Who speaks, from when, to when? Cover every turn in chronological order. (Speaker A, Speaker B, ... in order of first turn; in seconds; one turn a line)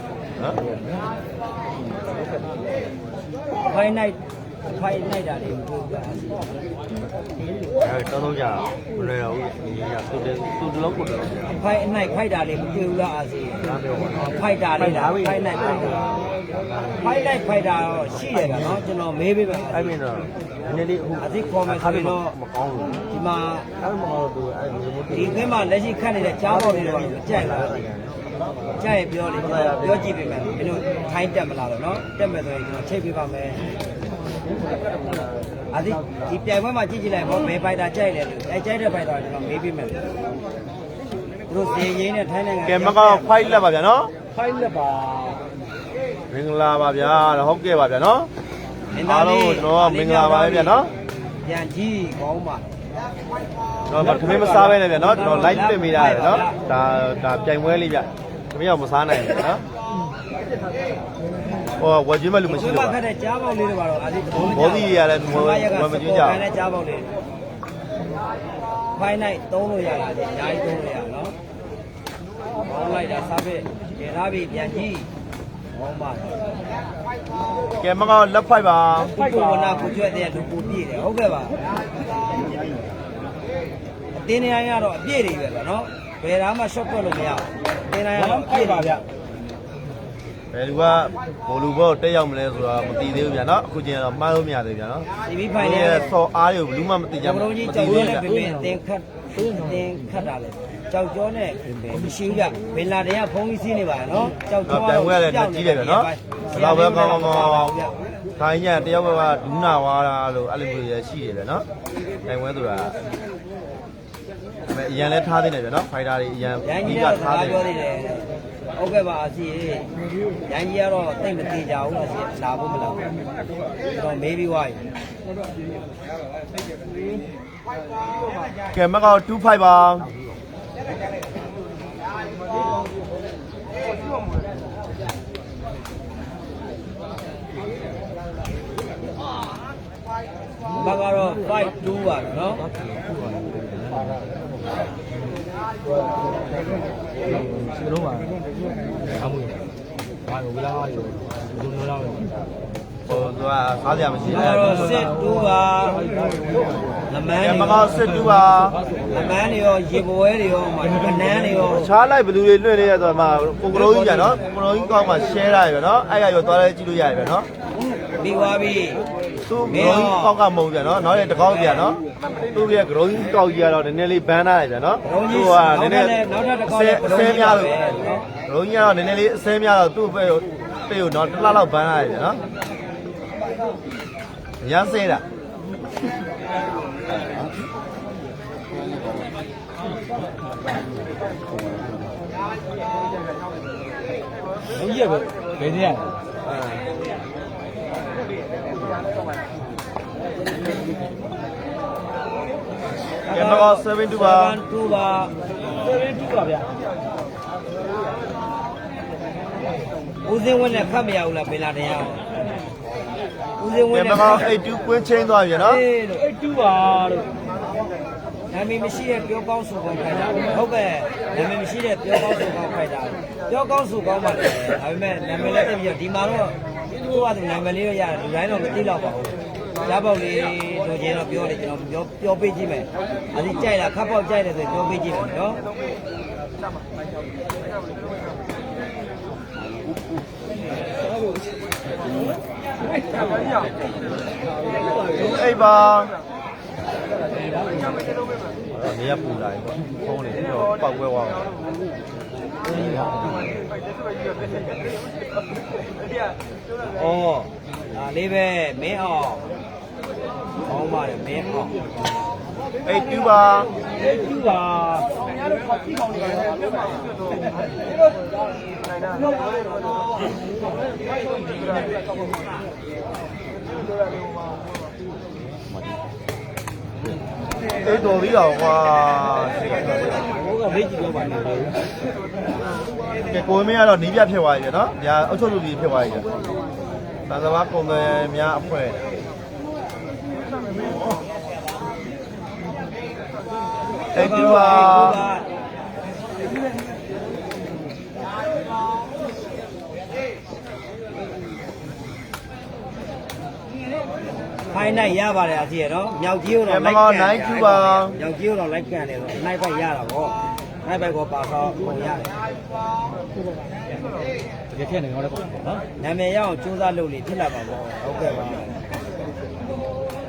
Speaker A: 0.6-1.1
Speaker B: 3.6-6.6
Speaker C: 7.8-11.6
Speaker B: 11.4-16.1
Speaker C: 13.6-16.4
Speaker B: 16.9-19.9
Speaker C: 18.2-18.8
Speaker C: 19.7-23.1
Speaker B: 21.2-22.4
Speaker B: 23.1-23.7
Speaker C: 23.8-25.5
Speaker B: 25.1-27.8
Speaker C: 26.4-28.1
Speaker B: 28.8-33.6
Speaker C: 29.4-30.3
Speaker B: 35.7-40.0
Speaker B: 41.5-43.6
Speaker C: 42.6-44.1
Speaker A: 44.3-45.4
Speaker C: 46.3-48.3
Speaker B: 48.9-50.9
Speaker C: 48.9-50.9
Speaker B: 51.4-52.7
Speaker C: 53.9-59.6
Speaker A: 53.9-54.7
Speaker B: 54.0-56.6
Speaker C: 61.8-63.0
Speaker B: 62.4-67.1
Speaker C: 64.3-66.4
Speaker B: 68.9-71.3
Speaker B: 72.6-75.1
Speaker B: 75.7-76.4
Speaker C: 77.8-79.1
Speaker A: 79.1-79.9
Speaker B: 79.1-81.5
Speaker B: 84.1-89.0
Speaker A: 88.1-89.0
Speaker C: 90.5-98.3
Speaker B: 95.2-96.2
Speaker B: 97.2-107.9
Speaker A: 97.8-98.8
Speaker A: 99.3-100.3
Speaker A: 101.9-102.6
Speaker C: 104.7-107.8
Speaker C: 108.4-111.7
Speaker C: 112.2-113.0
Speaker C: 114.7-117.6
Speaker B: 116.6-119.9
Speaker B: 120.5-123.1
Speaker B: 123.8-124.8
Speaker C: 128.7-130.1
Speaker B: 140.7-142.6
Speaker A: 142.6-144.2
Speaker A: 147.2-148.4
Speaker A: 149.1-149.6
Speaker A: 150.2-152.3
Speaker C: 153.1-155.0
Speaker A: 154.2-157.0
Speaker B: 154.3-156.0
Speaker B: 157.1-158.0
Speaker C: 157.4-158.8
Speaker A: 157.8-159.4
Speaker B: 159.1-161.9
Speaker A: 160.8-161.8
Speaker C: 161.6-167.5
Speaker B: 163.7-164.4
Speaker B: 167.8-169.0
Speaker C: 169.5-172.0
Speaker B: 169.7-170.4
Speaker C: 172.5-177.8
Speaker B: 175.0-178.3
Speaker C: 178.5-182.4
Speaker C: 184.6-185.2
Speaker A: 194.7-196.2
Speaker C: 196.4-196.8
Speaker B: 203.2-205.3
Speaker C: 203.3-204.6
Speaker A: 205.8-206.7
Speaker B: 210.2-212.2
Speaker B: 213.6-214.5
Speaker C: 213.9-215.8
Speaker B: 215.5-216.2
Speaker A: 216.2-217.3
Speaker B: 218.5-235.6
Speaker C: 245.1-246.1
Speaker C: 248.7-251.4
Speaker A: 252.6-253.4
Speaker B: 256.9-259.5
Speaker B: 260.6-261.8
Speaker C: 262.8-263.7
Speaker A: 264.0-266.6
Speaker C: 277.8-280.2
Speaker A: 280.3-281.8
Speaker C: 283.2-286.3
Speaker C: 287.3-289.0
Speaker C: 294.1-295.2
Speaker B: 294.1-295.4
Speaker B: 304.7-312.3
Speaker C: 306.6-308.2
Speaker A: 314.7-315.8
Speaker B: 316.0-318.8